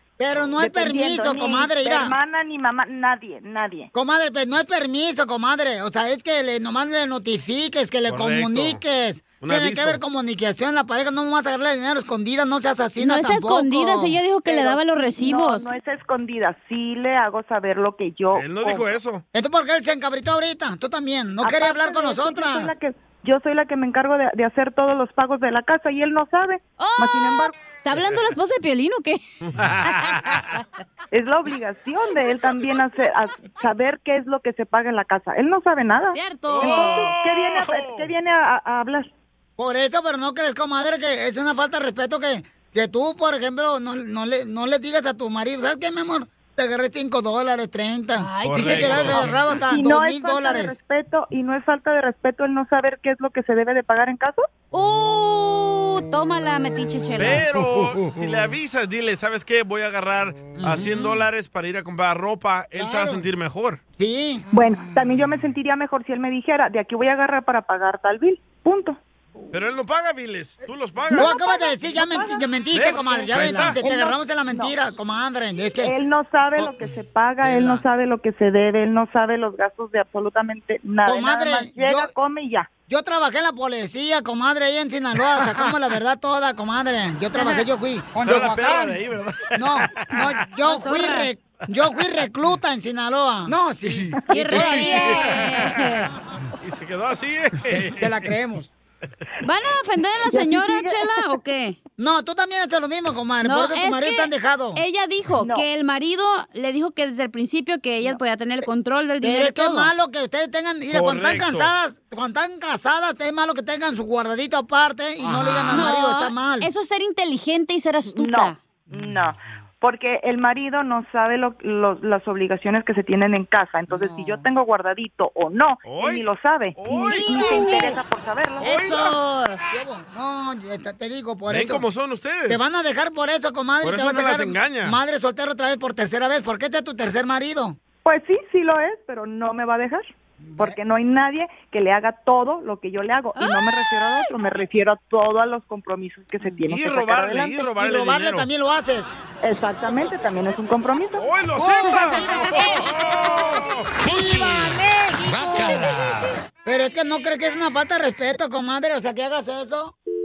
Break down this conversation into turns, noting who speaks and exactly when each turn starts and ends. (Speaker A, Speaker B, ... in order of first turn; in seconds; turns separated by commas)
Speaker A: 0.2-2.2, Speaker B: 0.6-3.9, Speaker A: 3.9-14.2, Speaker C: 8.1-8.8, Speaker C: 9.4-10.0, Speaker D: 13.0-15.7, Speaker B: 14.5-18.9, Speaker C: 18.3-19.2, Speaker A: 19.3-22.7, Speaker B: 21.4-27.5, Speaker D: 26.8-29.2, Speaker C: 29.5-30.4, Speaker D: 29.9-30.1, Speaker B: 31.1-39.1, Speaker D: 36.1-37.1, Speaker C: 36.5-38.1, Speaker A: 39.6-50.8, Speaker D: 48.2-49.3, Speaker C: 48.4-49.3, Speaker B: 49.7-54.5, Speaker D: 54.7-57.4, Speaker C: 57.2-63.8, Speaker A: 57.4-58.4, Speaker A: 60.6-61.1, Speaker A: 62.8-63.2, Speaker A: 64.0-64.5, Speaker B: 64.5-69.0, Speaker C: 69.5-71.3, Speaker A: 71.1-75.9, Speaker B: 71.2-72.5, Speaker C: 72.7-73.8, Speaker B: 73.8-74.8, Speaker B: 75.8-82.7, Speaker A: 77.4-77.8, Speaker A: 81.0-82.1, Speaker A: 82.9-89.0, Speaker D: 87.4-87.7, Speaker C: 88.2-90.3, Speaker A: 89.5-95.4, Speaker D: 90.6-91.3, Speaker D: 94.3-96.1, Speaker C: 94.5-95.4, Speaker C: 96.6-98.2, Speaker A: 97.8-98.7, Speaker D: 99.4-101.8, Speaker B: 100.3-101.1, Speaker A: 102.0-104.8, Speaker D: 103.4-109.9, Speaker B: 105.4-105.7, Speaker A: 109.2-116.7, Speaker C: 110.9-111.7, Speaker D: 115.7-118.6, Speaker B: 118.1-128.8, Speaker A: 123.9-124.4, Speaker C: 125.8-126.2, Speaker C: 126.8-127.5, Speaker D: 126.9-128.0, Speaker D: 128.6-129.6, Speaker C: 128.7-129.1, Speaker A: 129.7-131.8, Speaker C: 131.5-132.6, Speaker A: 132.5-137.8, Speaker C: 133.8-135.0, Speaker B: 138.1-147.6, Speaker A: 140.4-140.8, Speaker D: 143.3-143.7, Speaker C: 146.7-148.5, Speaker A: 147.8-149.1, Speaker B: 149.4-151.2, Speaker C: 151.2-153.9, Speaker A: 154.0-155.9, Speaker A: 156.7-159.9